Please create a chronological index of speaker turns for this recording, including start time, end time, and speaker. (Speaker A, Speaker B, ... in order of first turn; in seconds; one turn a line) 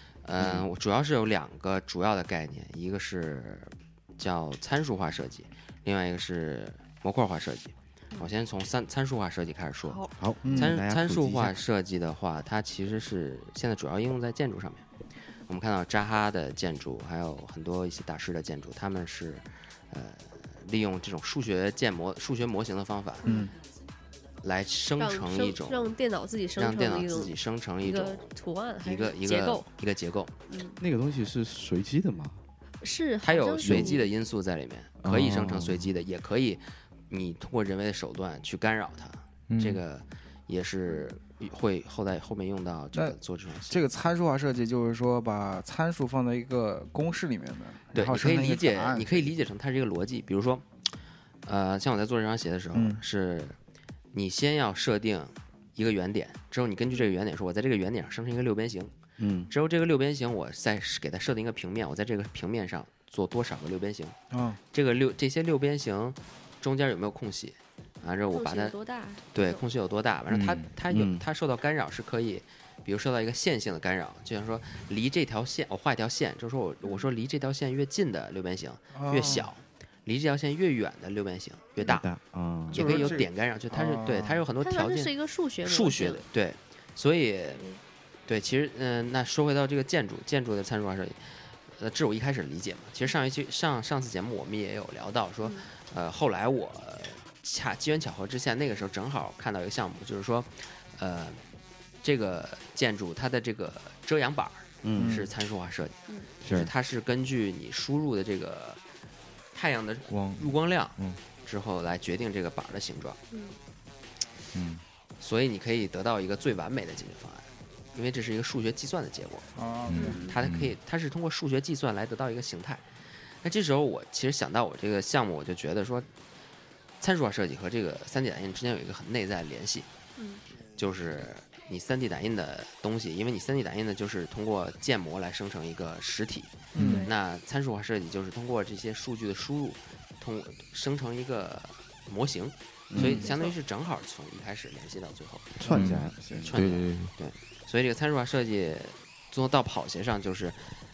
Speaker A: 0.2-14.9
Speaker B: 0.4-0.7
Speaker C: 9.9-10.1
Speaker B: 10.2-11.6
Speaker D: 10.4-10.8
Speaker A: 15.5-23.3
Speaker C: 23.2-23.5
Speaker D: 23.2-23.5
Speaker A: 24.4-25.9
Speaker C: 25.0-29.7
Speaker A: 26.6-28.3
Speaker A: 28.8-30.4
Speaker C: 30.5-30.8
Speaker B: 30.8-32.4
Speaker C: 32.8-34.1
Speaker A: 33.2-43.8
Speaker B: 33.7-33.9
Speaker B: 35.0-35.9
Speaker E: 39.5-39.8
Speaker D: 43.7-49.3
Speaker A: 47.9-50.7
Speaker A: 51.5-53.6
Speaker D: 52.7-53.0
Speaker A: 54.1-58.9
Speaker B: 59.2-59.5
Speaker A: 59.5-64.2
Speaker D: 64.3-64.6
Speaker A: 64.7-68.8
Speaker C: 68.0-69.6
Speaker A: 69.3-82.0
Speaker E: 70.3-70.7
Speaker B: 70.9-71.2
Speaker C: 76.8-77.1
Speaker D: 78.9-79.5
Speaker B: 81.8-83.0
Speaker A: 82.7-101.4
Speaker D: 82.7-84.5
Speaker C: 82.8-83.2
Speaker C: 84.6-86.2
Speaker A: 102.0-108.8
Speaker B: 104.8-105.3
Speaker D: 105.0-105.3
Speaker B: 106.4-106.7
Speaker A: 109.5-113.2
Speaker E: 110.1-111.2
Speaker C: 113.3-113.6
Speaker E: 114.5-114.8
Speaker A: 115.2-119.5
Speaker D: 119.6-120.4
Speaker E: 119.9-120.8
Speaker C: 120.0-120.3
Speaker A: 120.2-122.9
Speaker A: 123.4-126.1
Speaker A: 127.0-129.9
Speaker C: 130.2-130.4
Speaker A: 130.8-145.6
Speaker E: 136.8-137.0
Speaker C: 136.8-137.1
Speaker B: 142.9-143.3
Speaker C: 143.2-143.6
Speaker B: 145.6-146.5
Speaker E: 145.7-147.1
Speaker A: 146.3-150.7